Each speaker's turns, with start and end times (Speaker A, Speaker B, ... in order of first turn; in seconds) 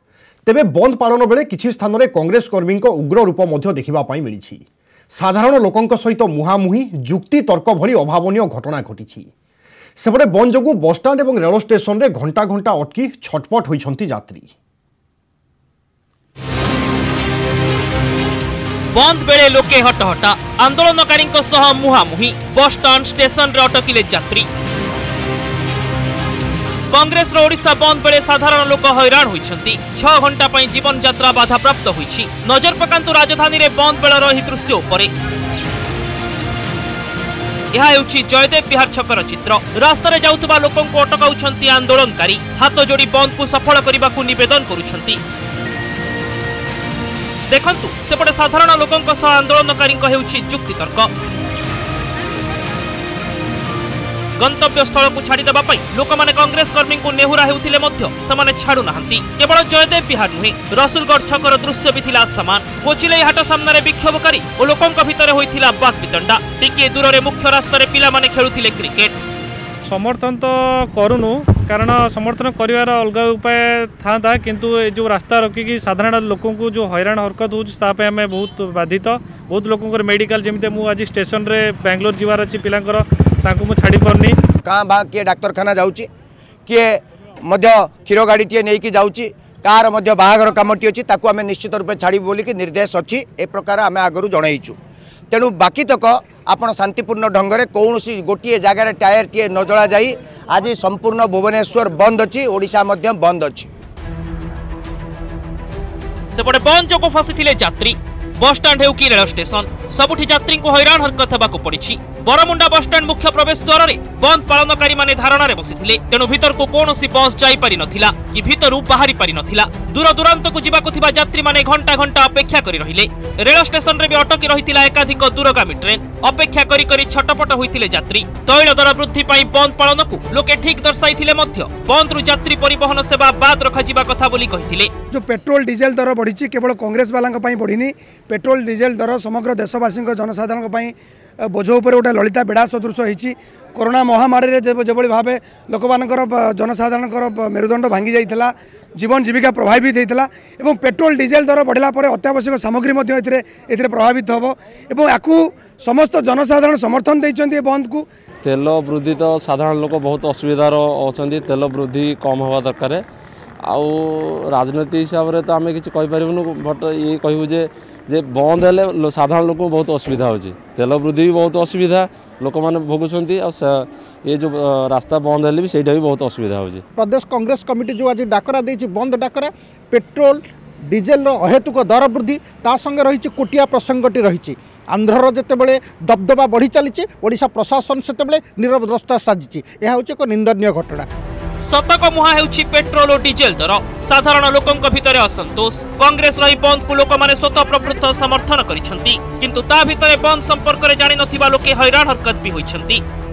Speaker A: 0.5-4.6, 5.2-9.3, 10.0-14.5
Speaker B: 18.9-24.5, 26.9-35.1, 37.7-45.2, 47.5-51.1, 54.4-69.1, 106.3-134.9, 191.7-203.0
Speaker C: 69.9-84.4
Speaker D: 84.7-86.1, 86.7-94.8, 95.3-103.7
Speaker E: 135.1-140.9, 141.5-158.1
Speaker F: 158.4-163.0, 163.6-176.8
Speaker G: 176.9-191.1